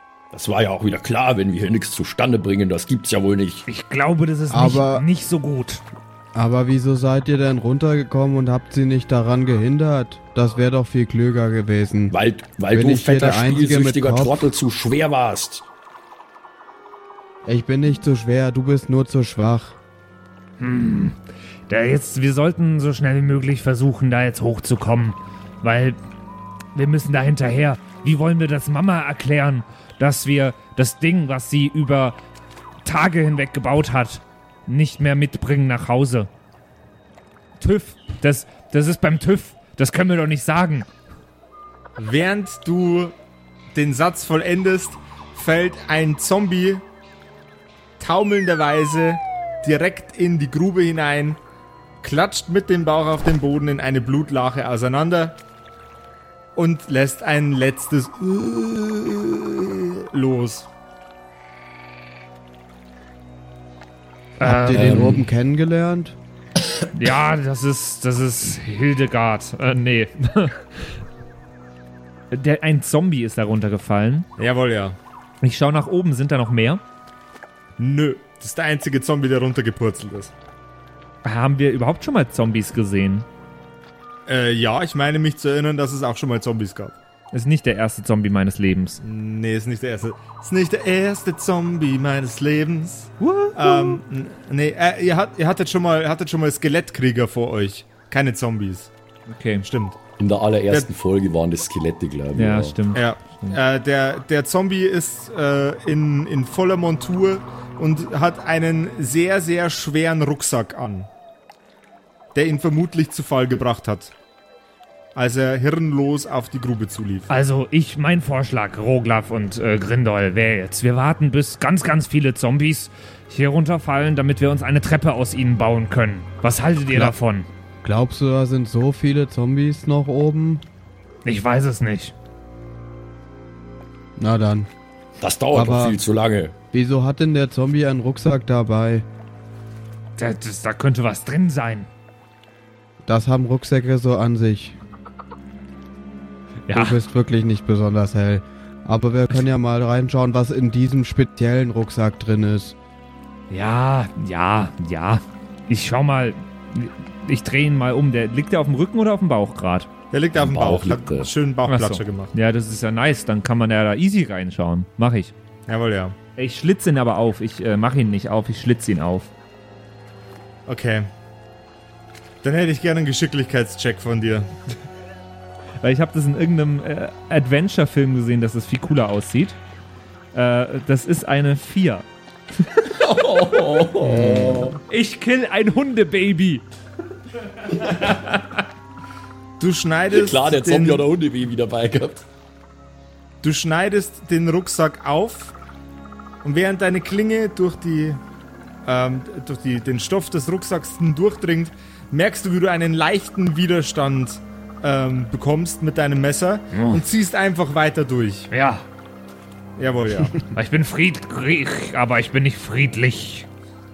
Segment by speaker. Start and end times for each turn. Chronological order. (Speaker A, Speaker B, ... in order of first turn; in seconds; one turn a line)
Speaker A: 0.3-3.7
Speaker B: 3.7-5.8
Speaker C: 4.5-5.0
Speaker C: 6.3-12.1
Speaker A: 12.1-15.7
Speaker C: 12.7-14.5
Speaker C: 17.5-19.8
Speaker B: 20.6-26.0
Speaker B: 26.7-32.2
Speaker B: 32.9-36.3
Speaker B: 37.6-40.9
Speaker D: 42.0-43.1
Speaker D: 43.7-46.8
Speaker D: 48.0-51.4
Speaker D: 52.0-55.4
Speaker D: 56.6-60.7
Speaker B: 64.4-65.2
Speaker C: 64.4-66.2
Speaker A: 64.7-65.3
Speaker B: 66.9-71.0
Speaker B: 72.3-74.3
Speaker D: 74.4-75.0
Speaker B: 75.4-76.8
Speaker D: 77.8-80.3
Speaker B: 81.2-83.3
Speaker D: 84.3-87.0
Speaker B: 87.3-89.0
Speaker D: 89.0-98.9
Speaker B: 93.2-94.0
Speaker B: 99.3-99.7
Speaker D: 99.7-100.0
Speaker A: 100.2-102.8
Speaker B: 102.3-103.6
Speaker D: 102.9-111.1
Speaker D: 112.3-114.1
Speaker D: 115.2-117.3
Speaker B: 117.3-127.5
Speaker C: 127.8-130.7
Speaker B: 131.2-132.1
Speaker C: 134.2-134.7
Speaker A: 135.2-136.5
Speaker C: 135.5-136.0
Speaker C: 136.7-139.1
Speaker B: 140.2-141.9
Speaker C: 143.0-144.8
Speaker B: 146.7-147.0
Speaker C: 146.7-152.8
Speaker B: 153.5-159.9
Speaker D: 160.1-162.3
Speaker A: 160.3-161.3
Speaker B: 161.7-165.3
Speaker D: 165.7-166.2
Speaker B: 166.4-169.3
Speaker D: 170.7-171.1
Speaker D: 172.4-174.5
Speaker B: 175.8-179.6
Speaker B: 180.3-182.1
Speaker B: 182.6-182.9
Speaker A: 182.9-184.8
Speaker B: 184.0-186.7
Speaker B: 187.7-188.6
Speaker D: 189.6-191.1
Speaker A: 190.1-192.3
Speaker D: 193.4-195.5
Speaker D: 196.4-198.2
Speaker D: 198.8-208.5
Speaker B: 206.7-207.0
Speaker B: 208.5-208.9
Speaker D: 209.8-210.4
Speaker B: 210.5-213.5